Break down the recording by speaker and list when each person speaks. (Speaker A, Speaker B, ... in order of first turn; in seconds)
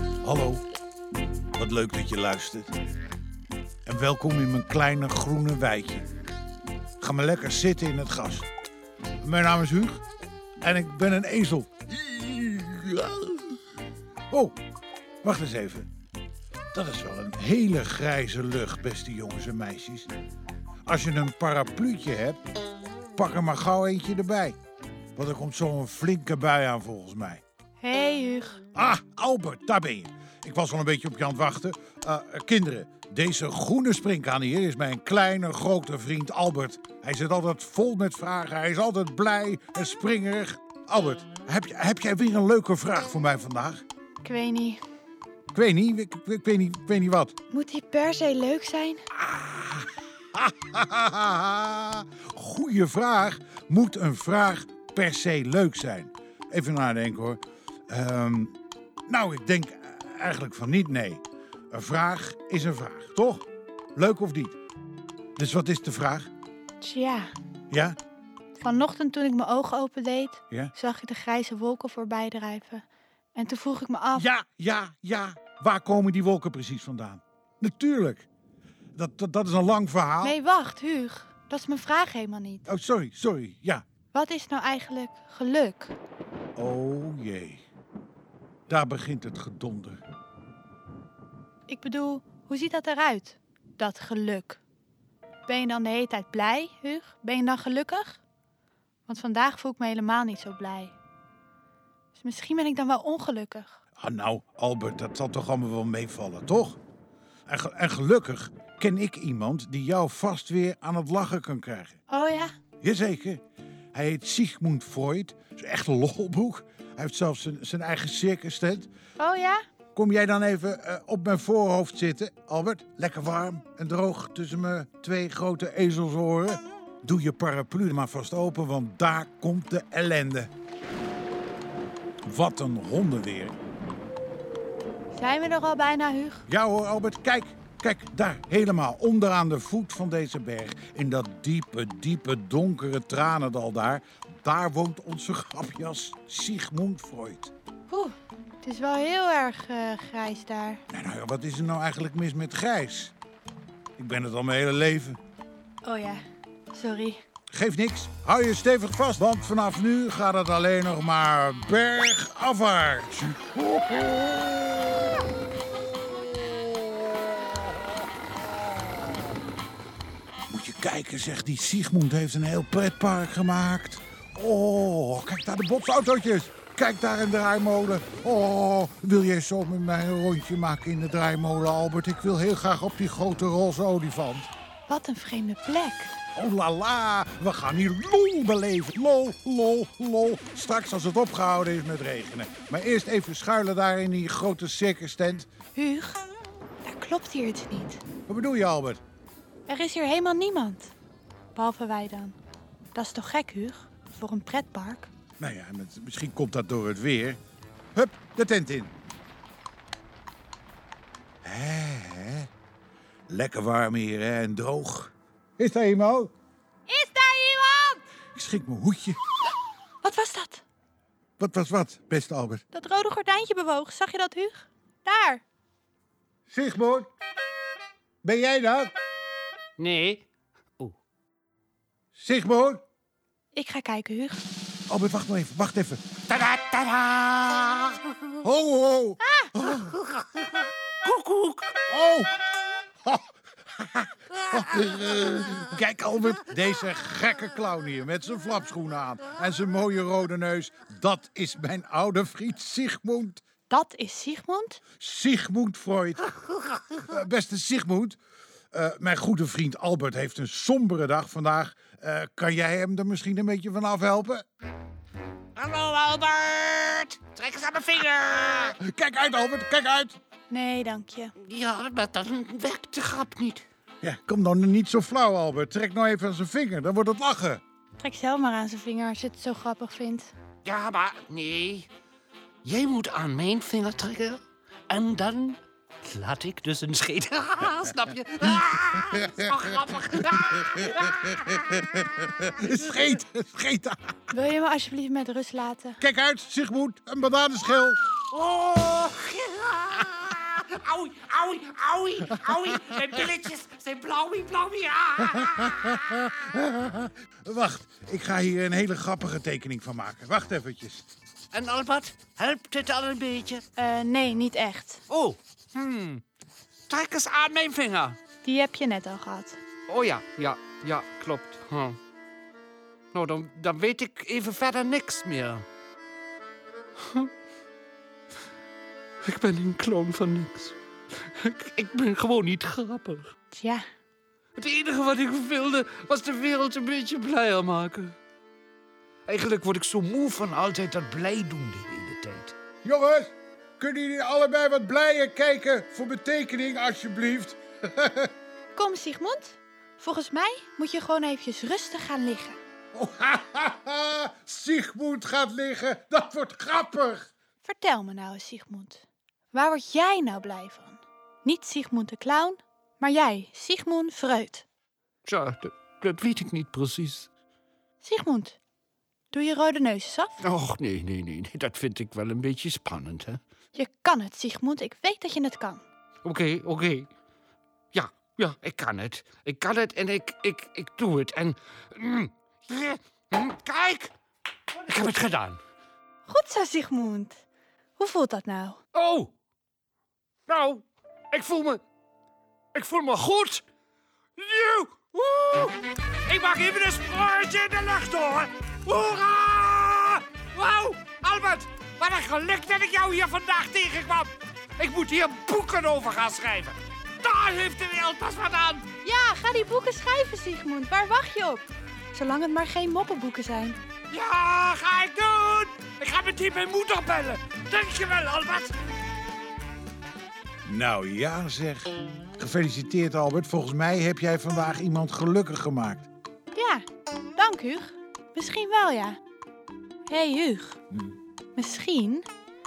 Speaker A: 0.2-0.7, 1.6-2.7, 3.9-6.1, 7.0-8.5, 9.2-10.0, 10.6-13.5, 15.2-15.9, 16.7-20.1, 20.9-22.4, 23.2-24.6, 25.2-27.4, 28.8-43.8, 45.5-47.3, 49.1-58.5, 59.1-64.6, 65.4-66.3, 67.7-68.0, 74.2-78.3, 79.0-80.4, 82.7-83.8, 86.6-87.6, 88.7-90.0, 104.0-106.8, 107.5-112.0, 112.8-113.4, 113.9-118.9, 120.0-130.5, 132.2-133.6, 136.5-147.5, 150.9-153.1, 154.0-155.2, 157.5-165.0, 170.5-184.5, 186.3-195.5, 198.3-199.0, 205.4-207.4, 207.9-208.9, 211.4-212.5, 213.3-216.3, 218.3-219.2, 221.4-222.6, 226.5-227.1, 228.2-228.9, 232.1-232.8, 234.9-236.1, 238.4-240.0, 241.9-242.3, 243.1-253.4, 255.0-256.3, 256.9-258.2, 258.7-264.4, 268.8-270.2, 274.0-277.6, 291.9-294.2, 296.0-298.0, 305.2-311.1, 342.8-348.3, 352.9-357.3, 420.6-426.1
Speaker B: 27.8-28.6, 44.2-44.8, 47.5-49.0, 66.8-67.3, 68.6-74.3, 80.2-82.7, 84.1-86.0, 91.7-94.6, 95.5-98.2, 99.1-101.0, 102.2-103.8, 112.1-112.5, 119.2-119.6, 135.1-136.4, 147.9-150.8, 155.8-157.2, 184.9-186.1, 195.8-196.2, 196.8-198.0, 199.7-200.9, 201.6-202.4, 202.9-205.1, 216.9-218.0, 220.0-220.6, 222.7-225.4, 233.5-234.4, 239.2-239.5, 253.7-254.8, 270.5-271.3, 278.0-280.3, 294.3-296.0, 313.8-315.0, 318.4-319.6, 333.5-333.9, 348.8-352.6, 357.6-364.7, 368.0-368.6, 369.3-370.4, 373.8-375.8, 386.3-387.4, 388.0-388.8, 409.0-413.8, 426.5-426.8, 427.4-429.2, 430.1-430.8, 431.6-432.3
Speaker C: 229.8-230.3, 236.3-238.3, 241.0-241.8, 265.6-268.8, 271.4-273.6, 280.6-281.9, 282.6-291.9, 292.7-293.1, 298.3-306.1, 311.5-313.6, 315.1-316.2, 316.9-318.2, 319.9-322.0, 323.1-325.7, 327.0-327.3, 329.2-333.3, 334.6-338.1, 339.3-342.5, 365.2-367.3, 370.4-373.4, 376.2-377.1, 377.9-384.1, 384.9-385.6, 388.9-389.3, 390.5-391.8, 392.8-393.6, 394.4-408.9, 414.1-418.8